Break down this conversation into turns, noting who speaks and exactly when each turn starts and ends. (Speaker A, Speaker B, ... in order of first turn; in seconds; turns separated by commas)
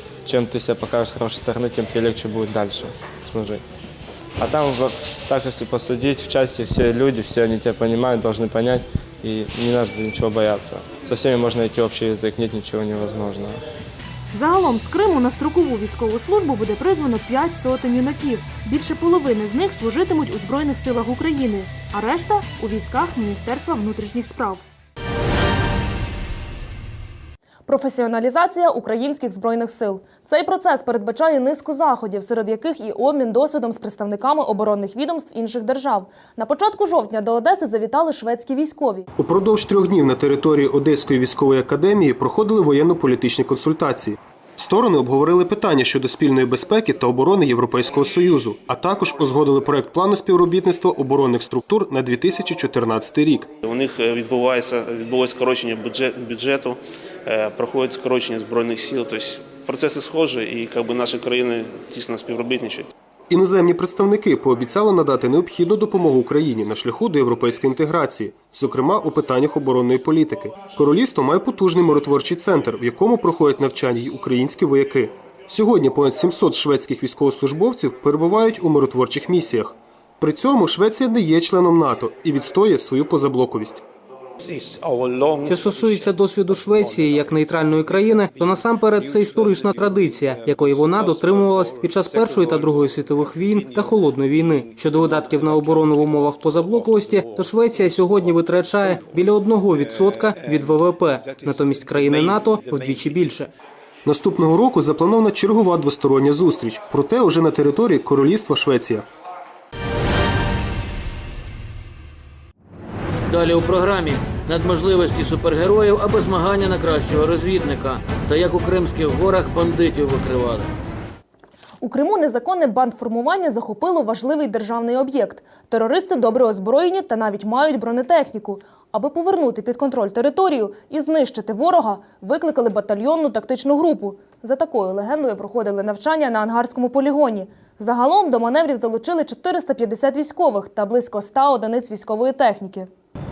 Speaker A: 0.2-3.6, Speaker A: 4.4-13.6, Speaker B: 14.3-24.6, Speaker B: 27.7-39.0, Speaker C: 39.2-53.5, Speaker D: 53.6-62.9, Speaker C: 63.3-83.8, Speaker E: 85.5-103.5, Speaker C: 104.0-109.0, Speaker F: 113.3-120.7, Speaker B: 121.8-142.9